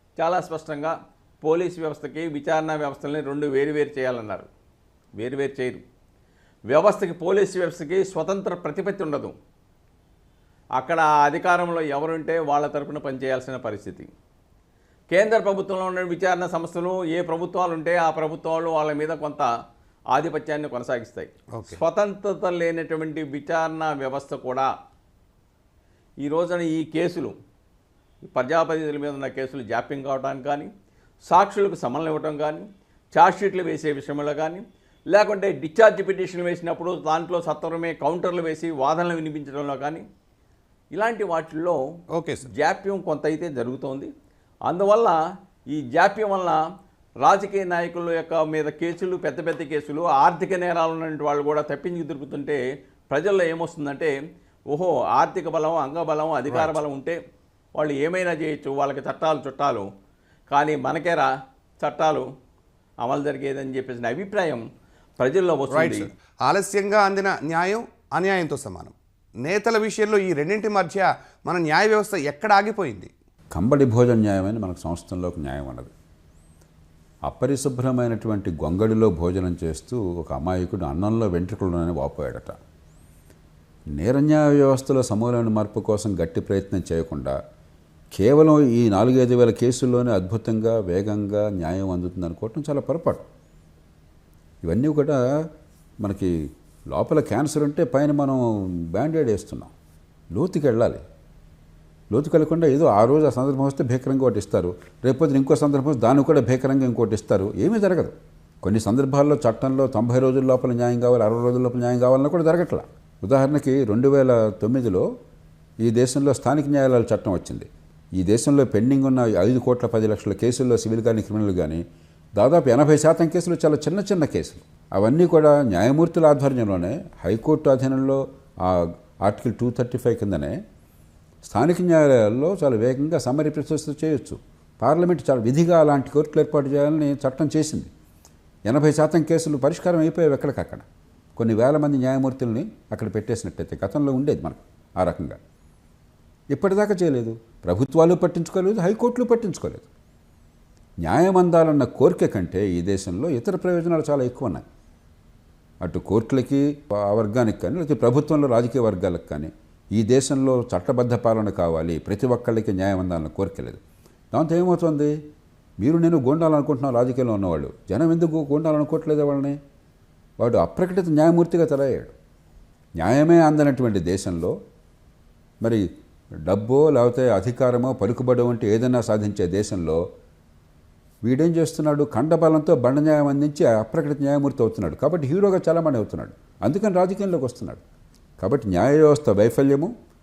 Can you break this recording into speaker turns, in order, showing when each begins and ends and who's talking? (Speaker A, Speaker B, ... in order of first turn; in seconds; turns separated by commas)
Speaker A: 0.2-4.5, Speaker A: 5.2-5.8, Speaker A: 6.7-9.3, Speaker A: 10.8-14.1, Speaker A: 15.1-19.5, Speaker A: 20.1-24.7, Speaker B: 21.5-21.8, Speaker A: 26.2-27.3, Speaker A: 28.3-30.7, Speaker A: 31.2-40.0, Speaker A: 40.9-41.8, Speaker B: 42.1-42.5, Speaker A: 42.5-44.1, Speaker A: 44.6-45.2, Speaker A: 45.7-46.6, Speaker A: 47.2-54.1, Speaker A: 54.7-57.2, Speaker B: 56.5-56.8, Speaker A: 57.8-59.9, Speaker A: 60.5-61.3, Speaker A: 61.8-62.3, Speaker A: 63.0-64.6, Speaker A: 65.2-66.1, Speaker B: 65.7-73.1, Speaker C: 73.5-75.9, Speaker C: 77.3-82.5, Speaker C: 84.0-87.3, Speaker C: 88.1-93.2, Speaker C: 94.6-95.2, Speaker C: 96.0-96.3, Speaker C: 96.9-99.7, Speaker C: 100.3-101.0, Speaker C: 102.1-115.1, Speaker C: 115.8-121.8, Speaker C: 122.3-130.6, Speaker C: 131.4-137.9, Speaker C: 138.7-145.4, Speaker C: 146.5-149.9, Speaker C: 151.0-154.6, Speaker C: 155.8-163.8, Speaker C: 164.3-165.1, Speaker C: 165.8-169.6, Speaker C: 170.4-172.1, Speaker C: 173.0-174.5, Speaker C: 176.4-180.0, Speaker C: 181.2-187.8, Speaker C: 188.4-189.9